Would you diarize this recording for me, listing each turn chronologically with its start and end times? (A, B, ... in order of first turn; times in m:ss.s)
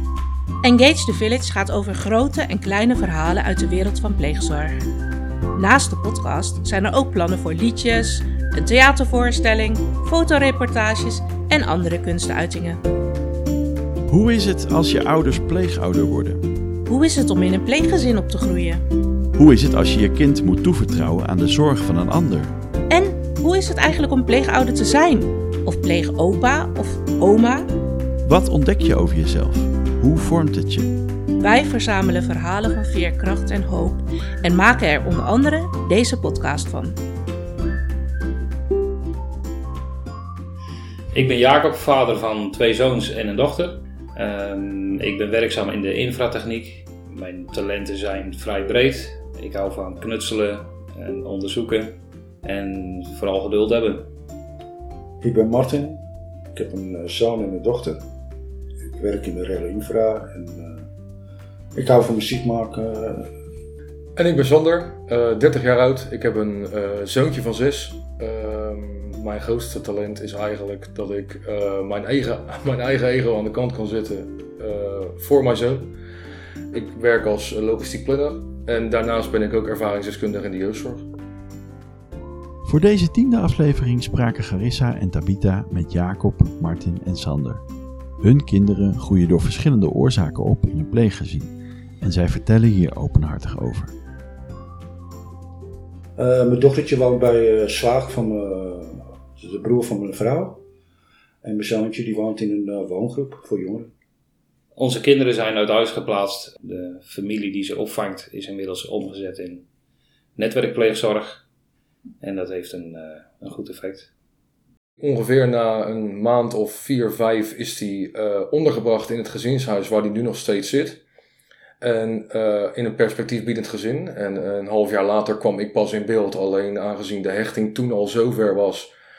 0:00.6-0:04.8 A
0:05.5-0:12.8 A
0:14.1-0:16.4 B
0:16.8-0:18.8 A
0:19.4-0:22.5 B
0:22.9-0:27.7 A
0:28.2-0:30.9 B
0:31.4-0:37.0 A
0:41.1-0:54.1 C
0:55.2-0:58.0 D
0:58.9-1:00.9 D
1:01.7-1:03.3 D
1:04.2-1:15.9 E
1:16.7-1:21.1 E
1:22.6-1:27.6 B
1:28.2-1:33.9 B
1:36.2-1:40.6 D
1:41.4-1:43.9 D
1:44.8-1:49.6 C
1:50.4-1:51.4 C
1:52.2-1:54.1 C
1:55.0-2:01.0 E
2:01.8-2:08.9 E